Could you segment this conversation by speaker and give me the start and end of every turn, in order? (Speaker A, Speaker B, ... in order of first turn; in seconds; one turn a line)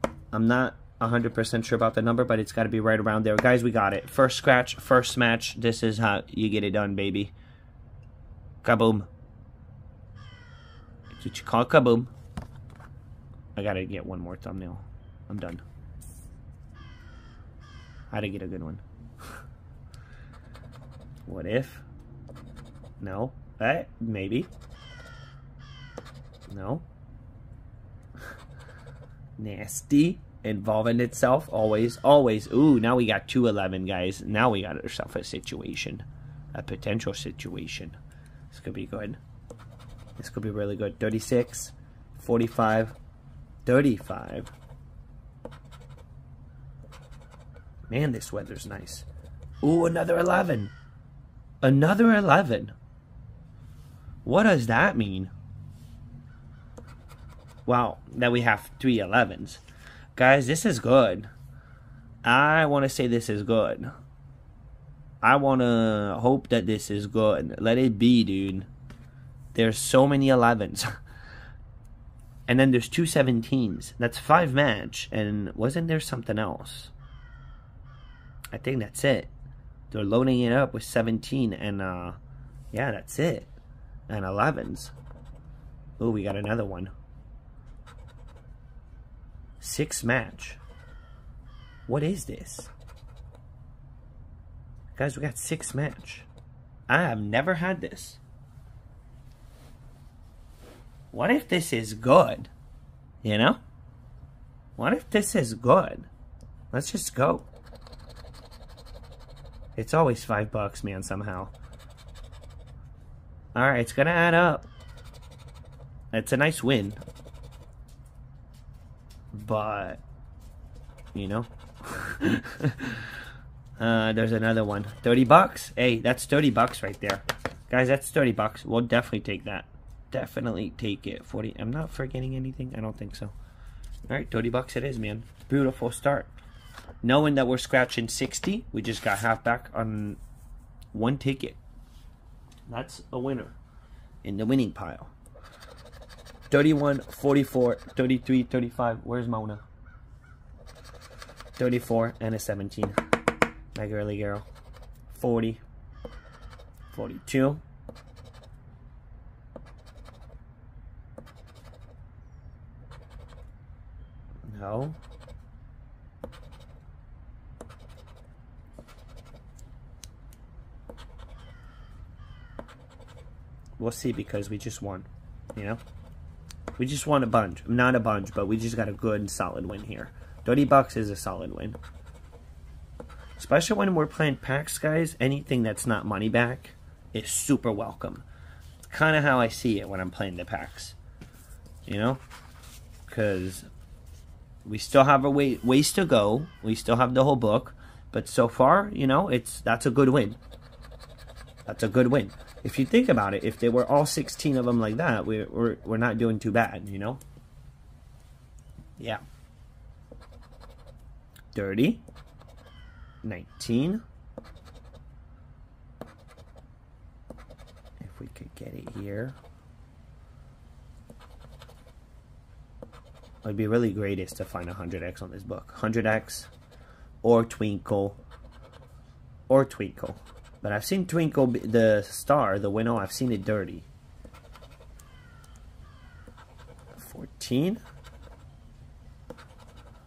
Speaker A: 0.3-7.3
Speaker A: 8.6-9.1
Speaker A: 11.1-12.1
Speaker A: 13.6-15.6
Speaker A: 18.1-18.8
Speaker A: 21.3-21.8
Speaker A: 23.0-24.5
Speaker A: 26.5-26.9
Speaker A: 29.4-38.0
Speaker A: 38.5-39.2
Speaker A: 40.2-43.0
Speaker A: 43.6-44.5
Speaker A: 47.9-49.1
Speaker A: 49.6-50.7
Speaker A: 51.6-52.8
Speaker A: 54.2-55.3
Speaker A: 57.7-59.6
Speaker A: 60.2-61.3
Speaker A: 62.2-63.9
Speaker A: 65.2-68.7
Speaker A: 69.5-70.9
Speaker A: 72.5-76.9
Speaker A: 78.5-79.3
Speaker A: 79.9-82.2
Speaker A: 82.7-83.5
Speaker A: 84.1-84.9
Speaker A: 86.0-86.9
Speaker A: 89.6-90.6
Speaker A: 91.9-92.7
Speaker A: 94.9-96.3
Speaker A: 96.9-98.2
Speaker A: 101.1-102.5
Speaker A: 103.2-103.6
Speaker A: 104.8-106.1
Speaker A: 106.7-107.5
Speaker A: 109.8-111.5
Speaker A: 113.5-114.7
Speaker A: 116.1-117.0
Speaker A: 119.3-120.0
Speaker A: 121.2-123.2
Speaker A: 123.8-133.3
Speaker A: 134.1-136.3
Speaker A: 137.0-140.2
Speaker A: 140.9-141.6
Speaker A: 142.7-143.6
Speaker A: 144.2-145.1
Speaker A: 146.5-149.6
Speaker A: 151.6-153.0
Speaker A: 153.7-154.5
Speaker A: 155.1-155.6
Speaker A: 156.9-157.6
Speaker A: 164.4-165.0
Speaker A: 173.8-175.8
Speaker A: 176.8-181.8
Speaker A: 183.4-188.2
Speaker A: 188.9-191.0
Speaker A: 191.9-192.2
Speaker A: 193.1-193.7
Speaker A: 194.7-200.4
Speaker A: 201.7-207.2
Speaker A: 211.5-212.0
Speaker A: 213.2-214.0
Speaker A: 218.0-219.4
Speaker A: 223.4-226.5
Speaker A: 227.2-228.2
Speaker A: 229.5-233.9
Speaker A: 237.0-237.8